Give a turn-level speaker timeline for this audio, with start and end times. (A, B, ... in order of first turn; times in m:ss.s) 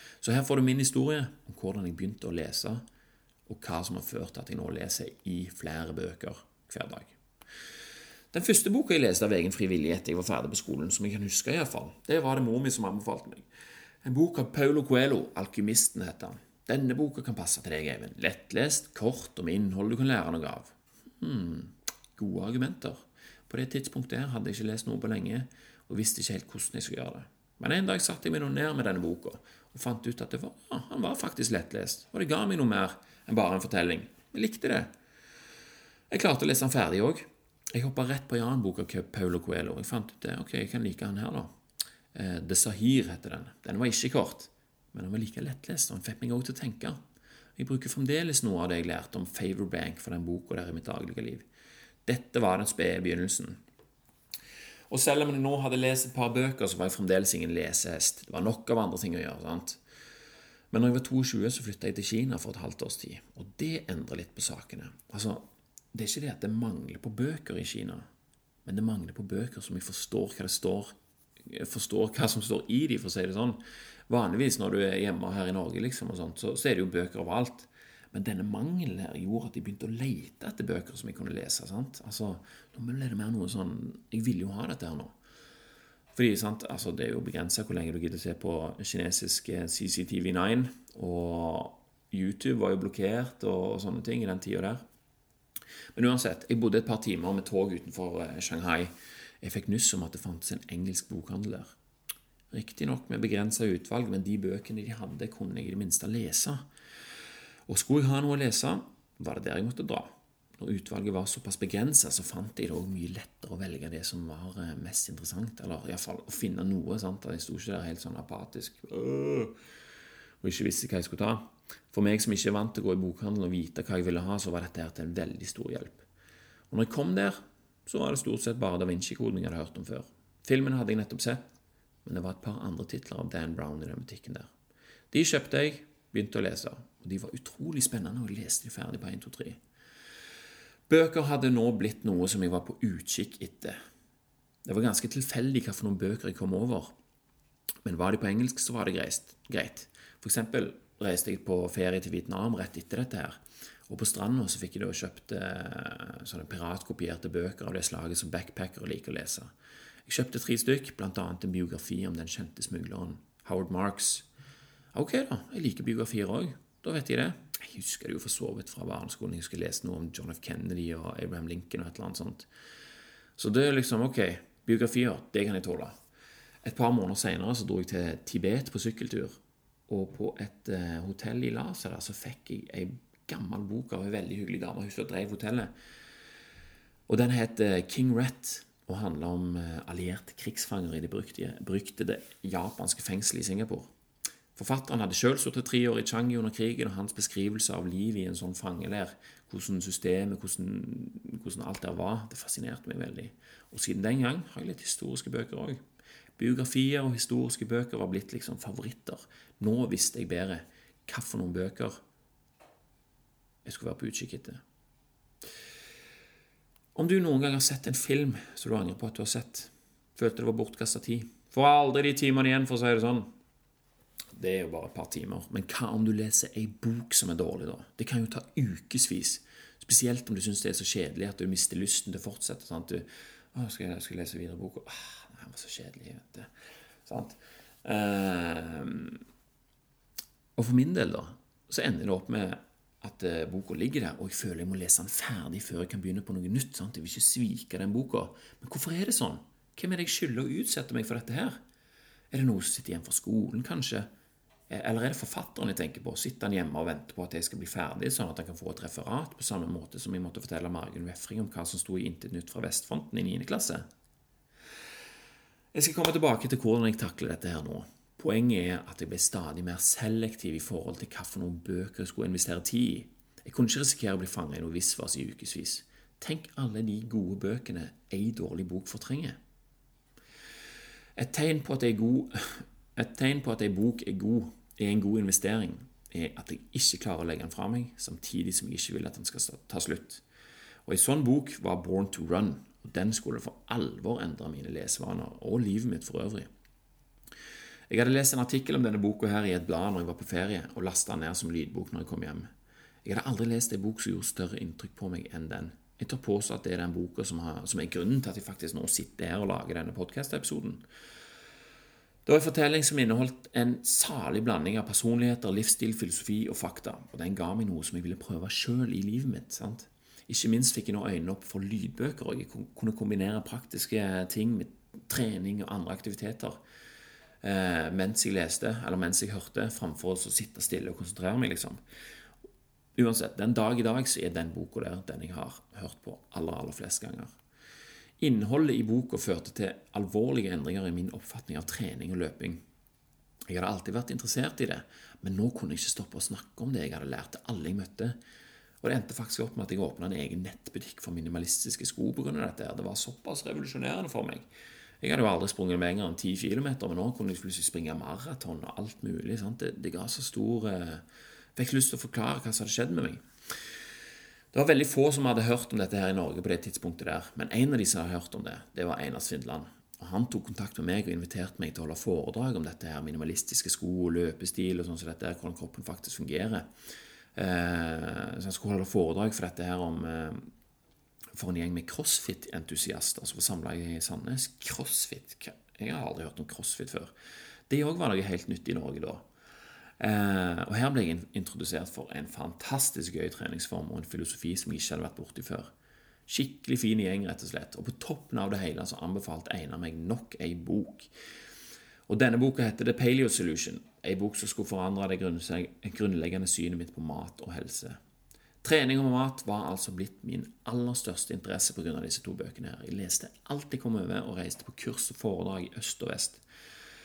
0:00.2-0:02.8 A
0:03.4-0:07.2 A
0:08.3-0:13.4 A
0:14.0-0:34.9 A
0:36.1-0:41.5 A
0:42.1-0:47.0 A
0:47.6-0:51.5 A
0:52.0-0:53.6 A
0:54.9-0:59.8 A
1:00.7-1:08.0 A
1:08.6-1:10.9 A
1:11.4-1:25.1 A
1:26.1-1:34.8 A
1:35.9-1:41.7 A
1:42.5-1:46.6 A
1:47.7-1:59.5 A
2:00.4-2:06.0 A
2:06.7-2:11.4 A
2:12.0-2:14.5 A
2:15.1-2:19.6 A
2:20.9-2:23.8 A
2:24.6-2:26.9 A
2:27.8-2:39.5 A
2:40.0-2:44.3 A
2:44.9-2:52.5 A
2:53.4-2:55.9 A
2:56.6-3:05.7 A
3:07.1-3:13.9 A
3:14.5-3:25.8 A
3:26.4-3:32.0 A
3:33.6-3:34.6 A
3:36.9-3:43.3 A
3:44.4-3:56.5 A
3:57.0-3:59.2 A
4:00.6-4:11.6 A
4:12.3-4:14.1 A
4:14.7-4:23.8 A
4:25.7-4:39.4 A
4:41.2-4:50.2 A
4:50.8-4:56.5 A
4:57.9-5:02.5 A
5:03.0-5:10.8 A
5:12.2-5:26.6 A
5:27.4-5:31.8 A
5:32.9-5:37.3 A
5:38.2-5:42.6 A
5:43.5-5:48.2 A
5:48.8-5:54.4 A
5:55.0-6:01.0 A
6:01.6-6:03.2 A
6:04.5-6:16.7 A
6:17.3-6:20.5 A
6:21.3-6:27.1 A
6:27.7-6:29.2 A
6:30.0-6:35.7 A
6:36.3-6:41.1 A
6:42.1-6:48.0 A
6:48.6-6:56.4 A